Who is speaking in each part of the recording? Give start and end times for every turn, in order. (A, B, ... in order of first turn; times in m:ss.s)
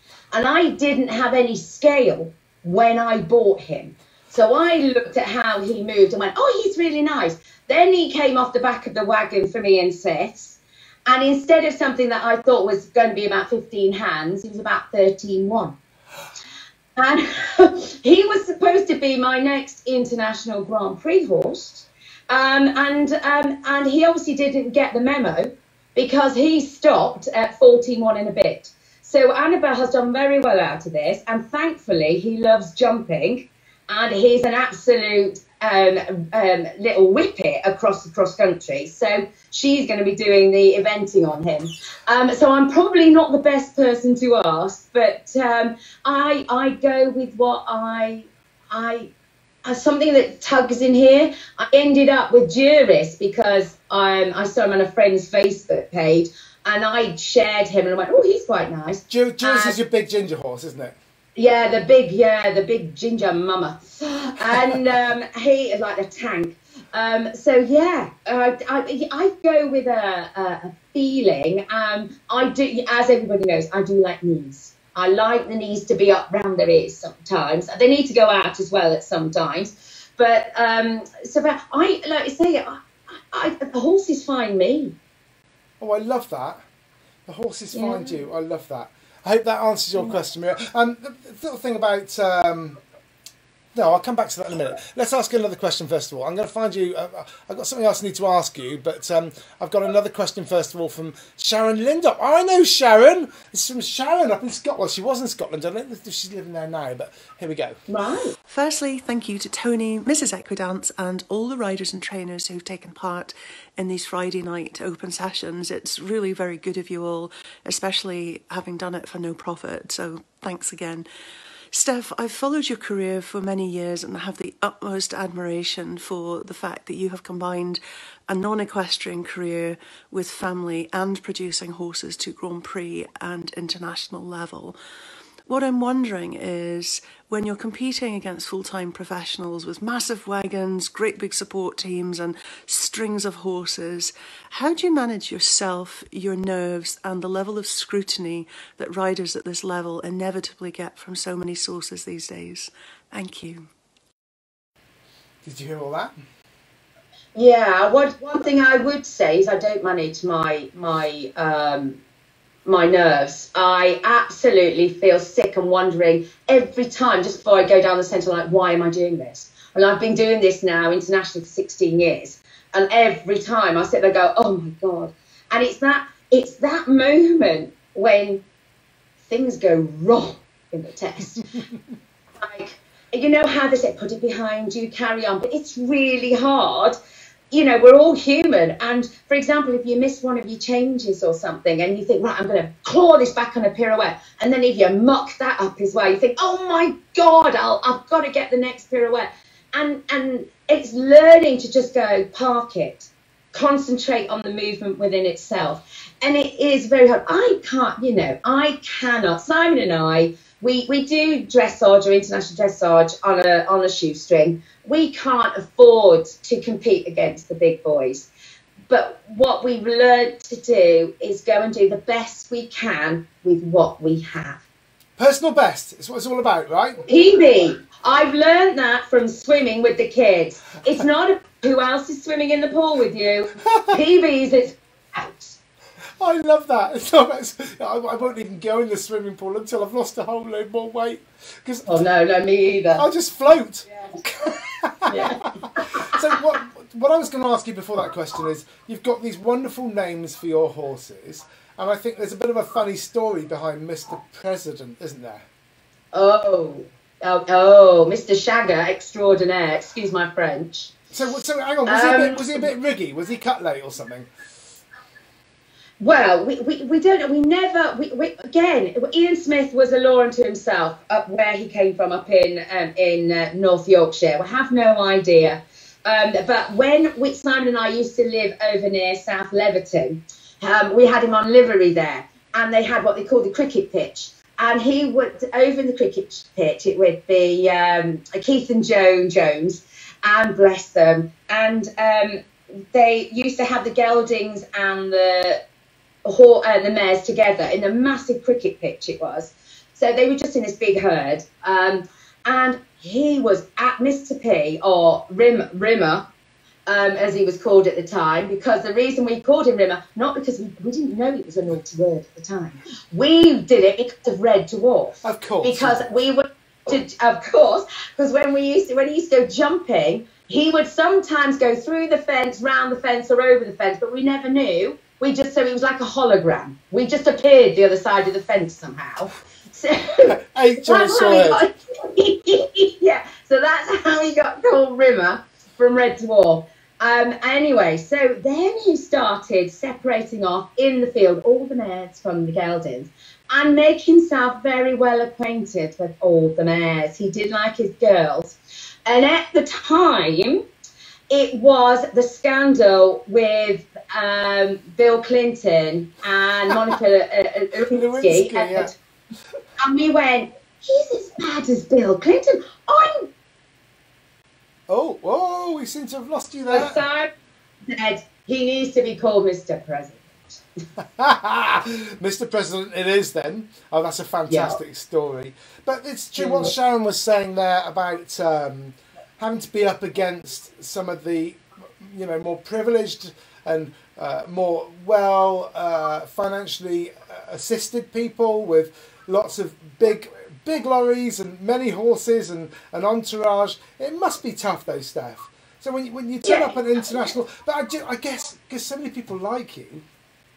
0:00.3-0:15.8 A
0:17.0-0:49.1 A
0:49.6-0:59.8 A
0:59.1-1:01.0 B
1:01.4-1:22.8 A
1:04.5-1:04.8 B
1:23.3-1:25.0 A
1:25.8-1:26.6 B
1:27.3-1:32.8 B
1:27.7-1:28.3 A
1:33.7-1:47.8 B
1:47.9-1:48.4 A
1:48.5-2:01.1 C
2:01.7-2:14.8 C
2:15.5-2:33.7 C
2:35.4-2:36.2 B
2:37.4-2:42.0 A
2:42.6-2:58.4 A
2:59.2-3:01.5 A
3:02.4-3:07.0 A
3:07.5-3:38.3 A
3:38.9-3:44.6 A
3:45.2-3:47.0 B
3:47.1-3:55.6 A
3:56.2-4:02.0 B
4:01.9-4:03.0 A
4:03.0-4:05.4 B
4:03.9-4:04.2 A
4:05.1-4:06.2 A
4:06.0-4:15.5 B
4:16.1-4:20.9 A
4:21.1-4:24.3 B
4:21.9-4:22.5 A
4:26.0-4:55.6 A
4:56.2-5:06.3 A
5:06.9-5:50.7 A
5:15.2-5:16.0 B
5:30.4-5:31.7 B
5:51.3-5:59.0 A
5:57.9-5:58.9 B
5:59.8-6:03.3 A
6:04.9-6:07.0 B
6:06.7-6:07.3 A
6:07.9-6:10.6 A
6:11.0-6:40.0 B
6:14.5-6:14.8 A
6:16.4-6:16.7 A
6:36.4-6:36.8 A